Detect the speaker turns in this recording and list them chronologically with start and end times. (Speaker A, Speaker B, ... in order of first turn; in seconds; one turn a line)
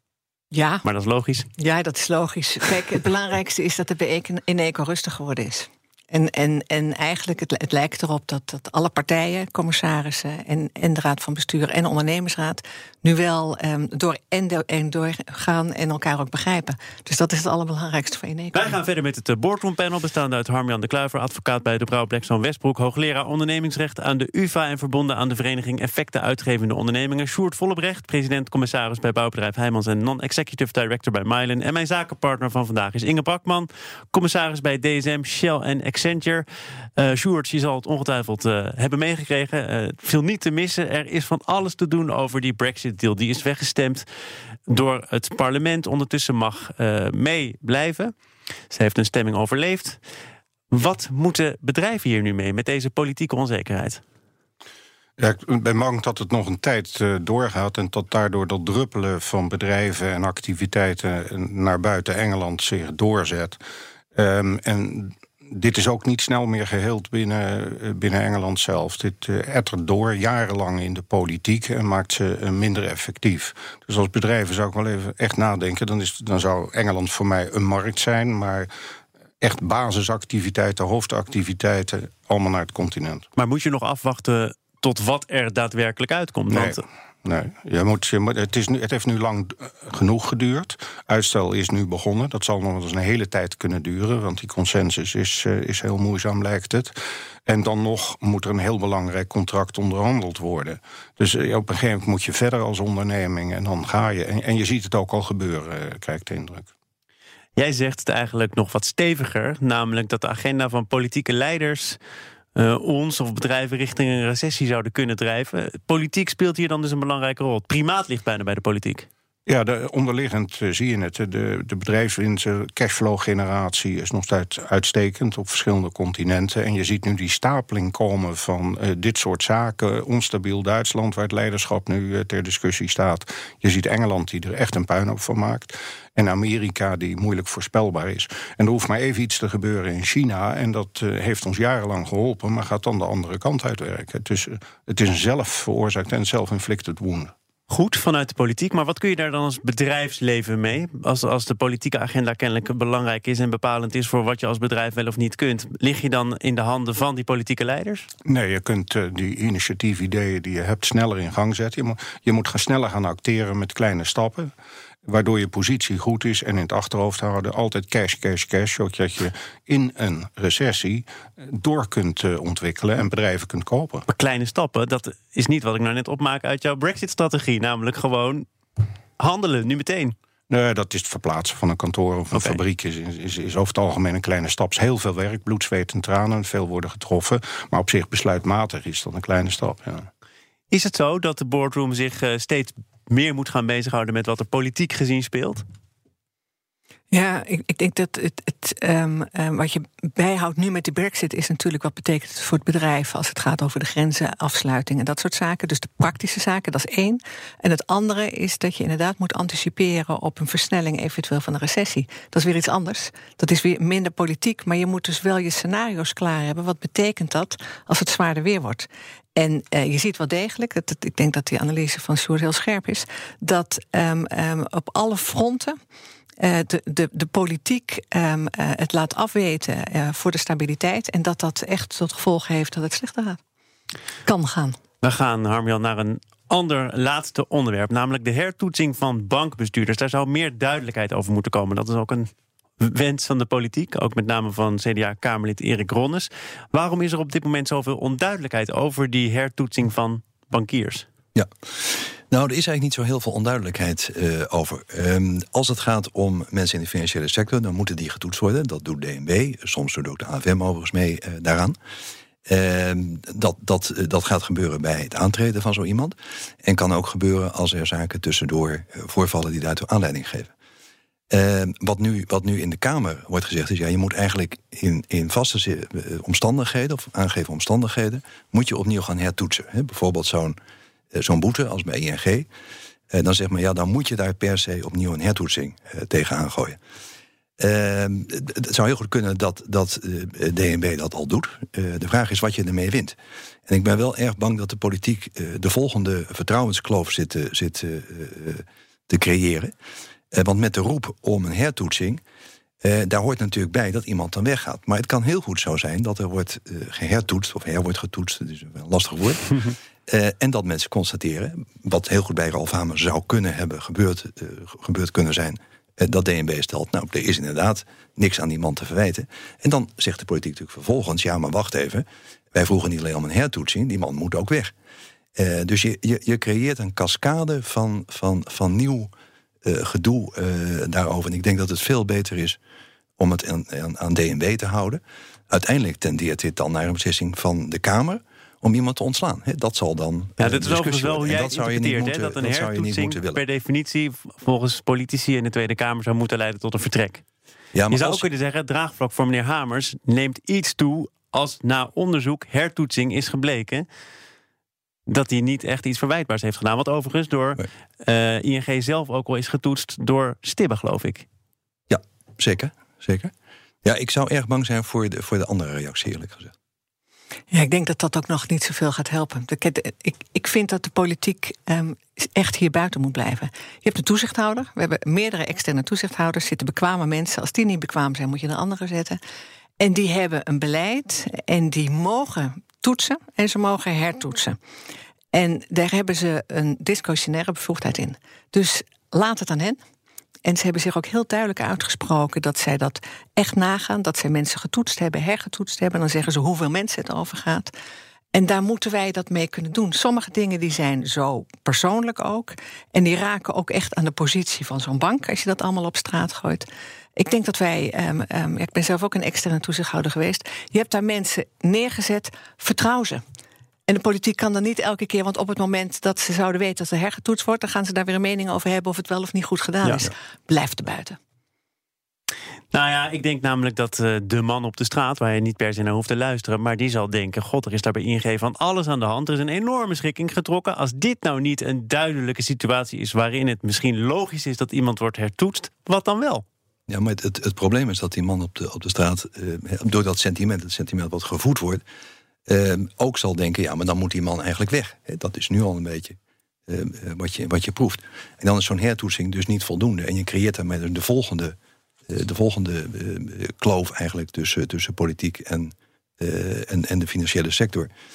Speaker A: 0.5-0.8
Speaker B: 0.8-1.5
Speaker A: 1.6-18.7
Speaker B: 18.5-36.5
Speaker B: 37.0-44.0
Speaker B: 44.7-48.1
Speaker B: 48.7-50.0
Speaker B: 50.7-54.0
Speaker C: 55.2-63.6
Speaker C: 64.2-78.7
Speaker C: 79.4-83.2
Speaker B: 83.3-86.8
Speaker C: 86.5-96.9
Speaker C: 97.5-106.7
Speaker B: 107.5-112.0
Speaker B: 112.5-119.1
Speaker C: 119.5-147.3
Speaker B: 147.7-158.1
Speaker C: 158.2-164.5
Speaker C: 165.1-174.0
Speaker B: 174.1-178.5
Speaker B: 179.2-180.1
Speaker C: 180.5-190.1
Speaker B: 182.3-182.6
Speaker B: 190.7-195.6
Speaker A: 197.1-225.8
Speaker A: 226.4-233.4
Speaker A: 234.2-234.8
Speaker B: 235.0-251.1
Speaker D: 251.3-261.8
Speaker D: 262.5-270.5
Speaker D: 271.3-280.6
Speaker D: 281.1-282.5
Speaker D: 283.1-286.8
Speaker D: 287.6-293.1
Speaker D: 293.7-299.7
Speaker D: 300.3-302.2
Speaker D: 302.8-324.7
Speaker D: 325.4-329.1
Speaker D: 329.6-332.6
Speaker D: 333.2-343.4
Speaker B: 340.4-347.2
Speaker D: 347.7-348.2
Speaker B: 347.9-353.9
Speaker B: 355.1-361.2
Speaker D: 361.9-363.3
Speaker D: 363.8-366.5
Speaker A: 367.5-379.2
Speaker A: 379.8-384.6
Speaker A: 385.3-389.8
Speaker A: 390.4-397.7
Speaker A: 398.3-413.2
Speaker A: 413.9-421.2
Speaker B: 422.7-436.4
Speaker D: 436.9-441.8
Speaker D: 442.5-446.1
Speaker D: 446.7-451.5
Speaker D: 452.1-457.9